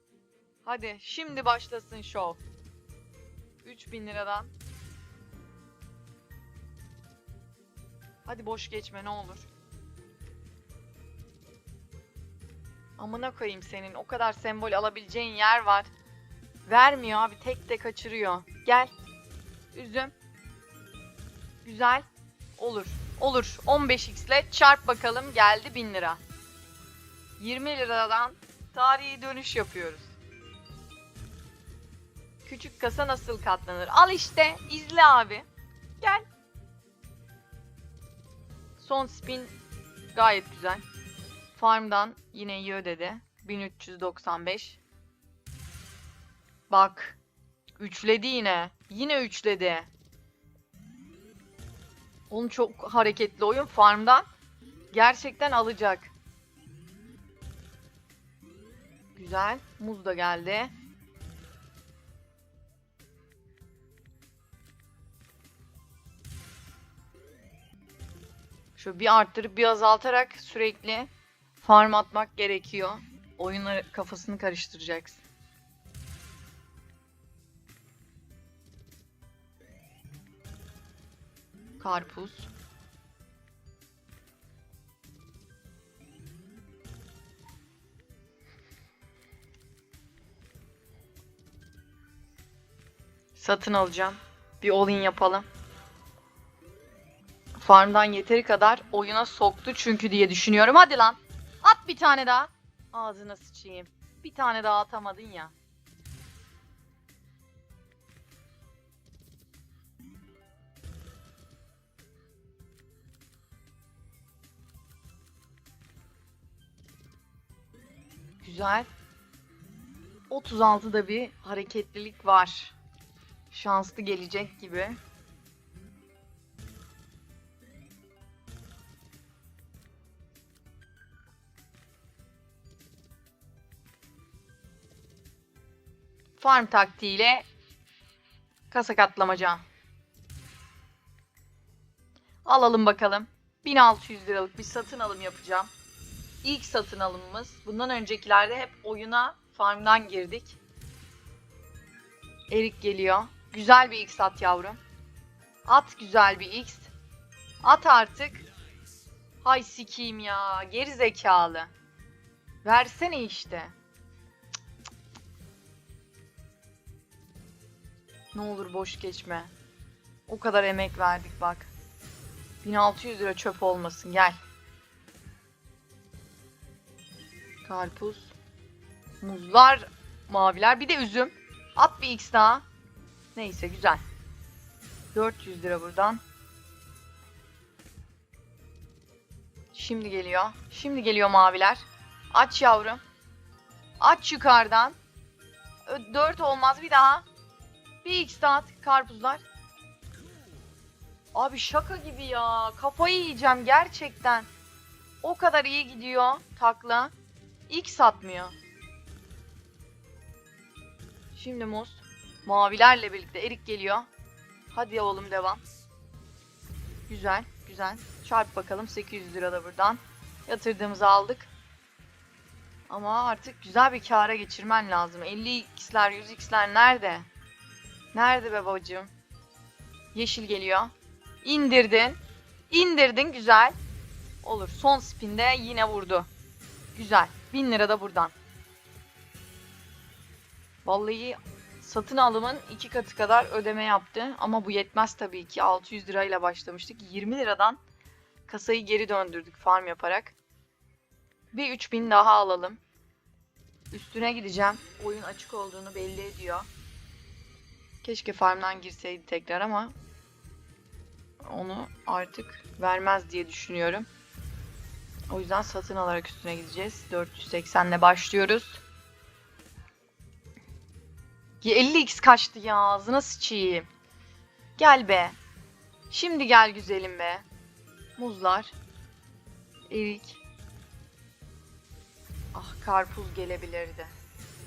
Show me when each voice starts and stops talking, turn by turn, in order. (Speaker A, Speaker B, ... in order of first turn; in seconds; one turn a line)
Speaker A: 0.6-2.4
Speaker A: 3.6-4.5
Speaker A: 8.2-9.5
Speaker A: 13.0-15.9
Speaker A: 16.7-18.9
Speaker A: 19.7-20.1
Speaker A: 21.6-22.0
Speaker A: 22.6-26.2
Speaker A: 27.4-30.1
Speaker A: 32.4-35.5
Speaker A: 36.0-36.2
Speaker A: 38.8-39.5
Speaker A: 40.1-40.8
Speaker A: 41.5-44.8
Speaker A: 46.7-47.2
Speaker A: 47.8-49.9
Speaker A: 52.3-54.3
Speaker A: 54.9-56.1
Speaker A: 59.1-60.7
Speaker A: 68.8-75.2
Speaker A: 81.8-82.5
Speaker A: 93.3-95.4
Speaker A: 97.6-105.5
Speaker A: 118.4-118.9
Speaker A: 120.3-122.7
Speaker A: 123.5-125.0
Speaker A: 136.4-137.4
Speaker A: 138.7-139.6
Speaker A: 142.4-145.7
Speaker A: 146.4-150.6
Speaker A: 152.5-154.8
Speaker A: 155.6-156.9
Speaker A: 157.6-158.4
Speaker A: 159.4-161.7
Speaker A: 162.6-163.7
Speaker A: 168.3-169.5
Speaker A: 170.3-171.7
Speaker A: 172.6-174.4
Speaker A: 177.6-178.3
Speaker A: 179.2-182.6
Speaker A: 183.3-184.0
Speaker A: 185.1-186.2
Speaker A: 189.7-193.0
Speaker A: 194.0-195.0
Speaker A: 195.8-197.2
Speaker A: 198.0-199.4
Speaker A: 201.3-204.5
Speaker A: 205.2-207.1
Speaker A: 207.7-208.6
Speaker A: 211.3-214.1
Speaker A: 214.7-215.6
Speaker A: 217.1-221.5
Speaker A: 222.9-227.3
Speaker A: 228.1-229.1
Speaker A: 230.1-232.2
Speaker A: 232.7-233.8
Speaker A: 234.4-236.3
Speaker A: 236.9-238.3
Speaker A: 240.8-247.8
Speaker A: 248.5-250.3
Speaker A: 251.5-252.8
Speaker A: 253.9-256.7
Speaker A: 258.0-259.9
Speaker A: 261.4-264.1
Speaker A: 265.3-268.8
Speaker A: 271.6-273.9
Speaker A: 274.8-275.4
Speaker A: 276.1-277.4
Speaker A: 278.2-278.7
Speaker A: 279.9-280.4
Speaker A: 282.5-284.1